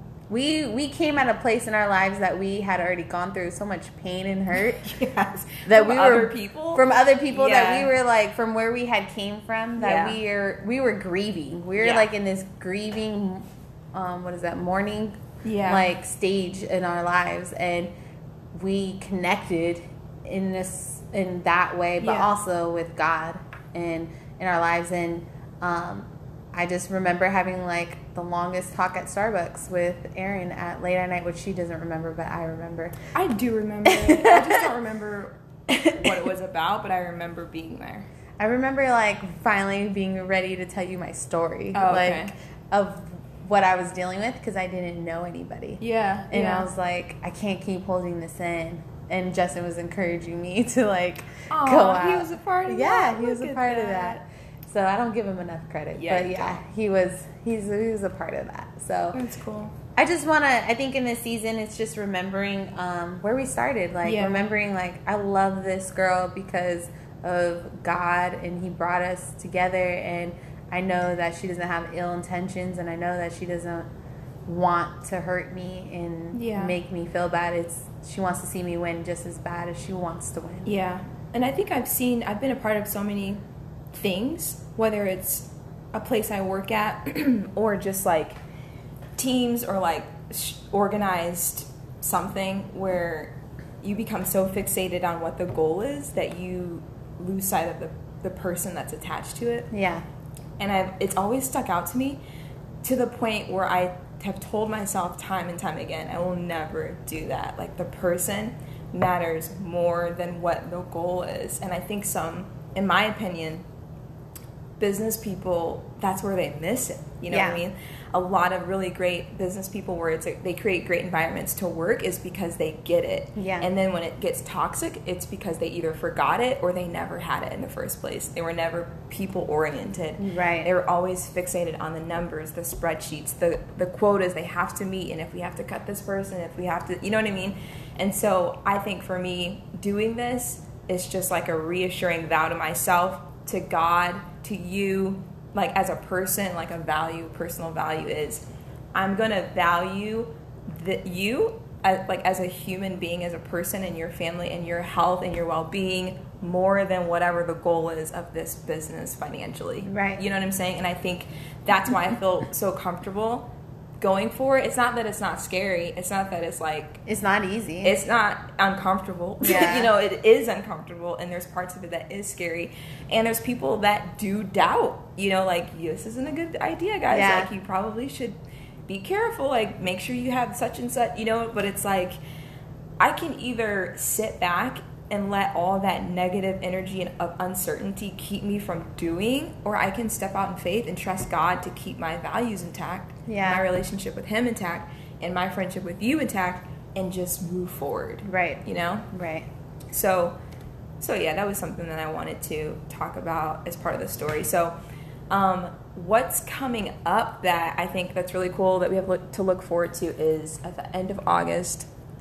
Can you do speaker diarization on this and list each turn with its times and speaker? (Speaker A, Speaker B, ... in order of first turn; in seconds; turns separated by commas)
Speaker A: 0.3-4.8, Speaker B: 4.8-7.9, Speaker A: 5.6-17.9, Speaker B: 9.8-10.2, Speaker B: 11.8-12.1, Speaker B: 15.4-15.9, Speaker A: 18.5-32.9, Speaker B: 22.0-22.3, Speaker B: 33.1-38.0, Speaker A: 33.8-34.7, Speaker A: 38.4-59.2, Speaker B: 41.7-42.3, Speaker B: 45.8-46.7, Speaker B: 51.5-54.2, Speaker B: 55.9-56.6, Speaker B: 59.1-59.8, Speaker A: 59.9-73.8, Speaker B: 64.0-64.5, Speaker A: 74.5-80.7, Speaker B: 76.3-76.8, Speaker B: 80.7-83.4, Speaker B: 83.9-88.4, Speaker B: 89.2-99.7, Speaker A: 99.7-100.0, Speaker B: 100.6-102.2, Speaker B: 102.8-113.6, Speaker B: 114.8-163.5, Speaker A: 117.3-117.6, Speaker A: 123.3-123.7, Speaker A: 130.2-130.7, Speaker A: 159.8-160.2, Speaker B: 164.0-167.0, Speaker A: 167.1-168.0, Speaker B: 167.8-182.2, Speaker A: 169.4-169.9, Speaker A: 177.1-177.5, Speaker B: 183.0-199.1, Speaker A: 193.3-193.7, Speaker A: 198.2-199.5, Speaker B: 199.9-200.3, Speaker B: 201.0-204.8, Speaker B: 205.3-211.9